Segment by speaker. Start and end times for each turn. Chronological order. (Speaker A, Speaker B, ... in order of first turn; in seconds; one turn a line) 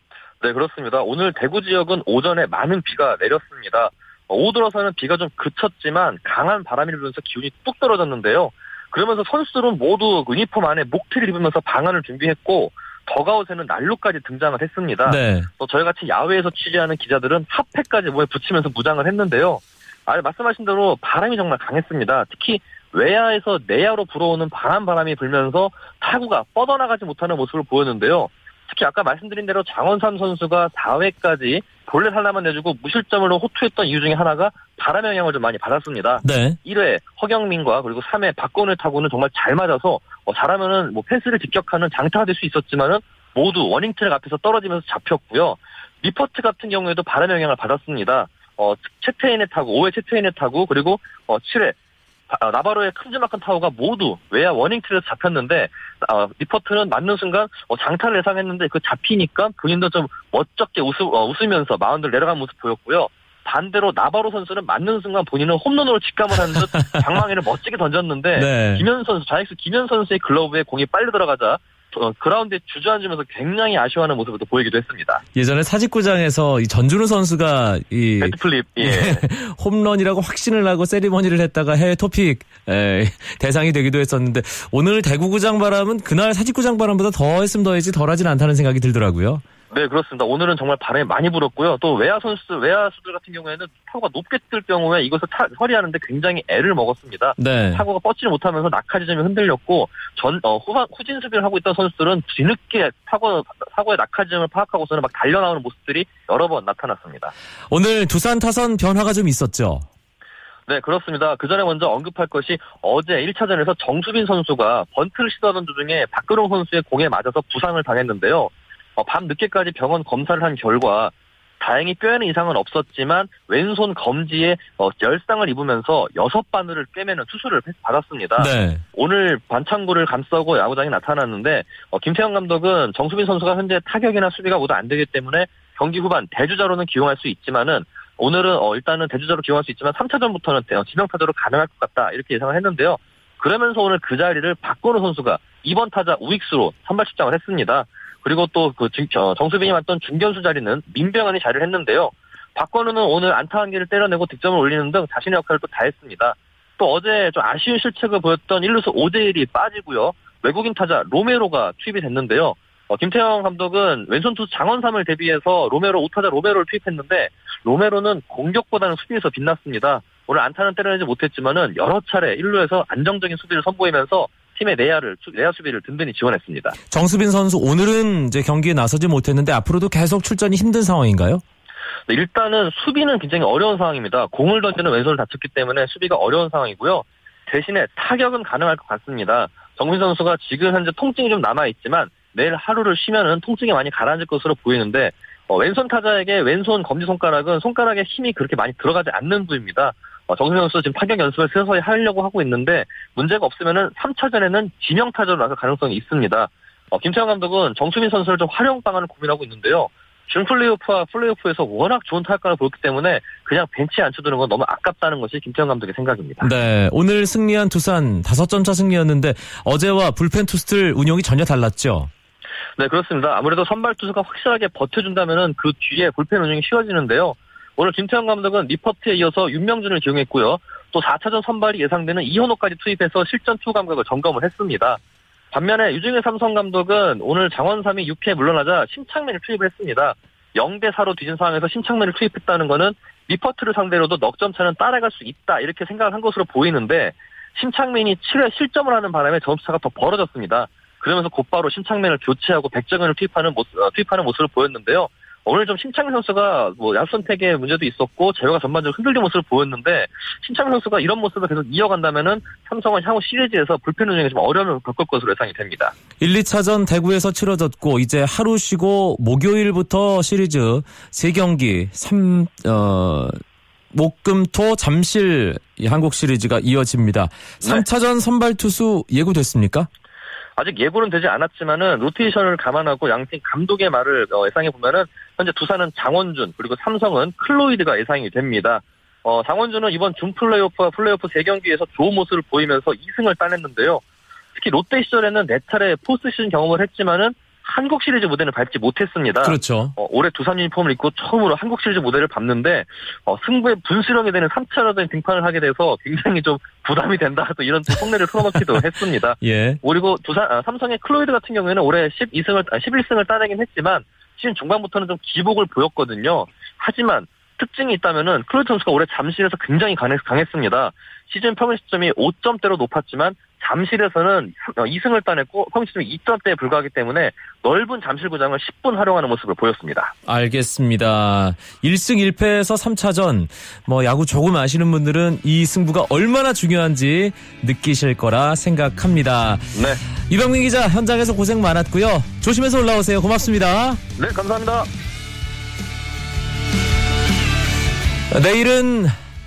Speaker A: 0.4-51.8
Speaker B: 15.1-15.5
Speaker B: 36.2-36.6
Speaker A: 52.3-75.2
Speaker B: 66.8-67.0
Speaker B: 68.4-68.9
Speaker B: 75.3-89.4
Speaker A: 78.2-79.2
Speaker A: 89.7-107.3
Speaker B: 97.4-97.8
Speaker B: 107.7-109.9
Speaker A: 110.7-176.8
Speaker B: 128.4-128.8
Speaker B: 176.9-181.4
Speaker A: 182.1-216.5
Speaker B: 216.4-222.1
Speaker A: 222.8-235.0
Speaker A: 235.5-265.9
Speaker B: 266.2-273.4
Speaker B: 273.9-279.9
Speaker A: 280.6-294.0
Speaker A: 294.6-330.1
Speaker B: 299.4-299.9
Speaker B: 309.4-309.8
Speaker B: 330.3-339.7
Speaker A: 339.8-340.0
Speaker B: 340.3-344.0
Speaker A: 344.2-344.9
Speaker B: 348.3-349.1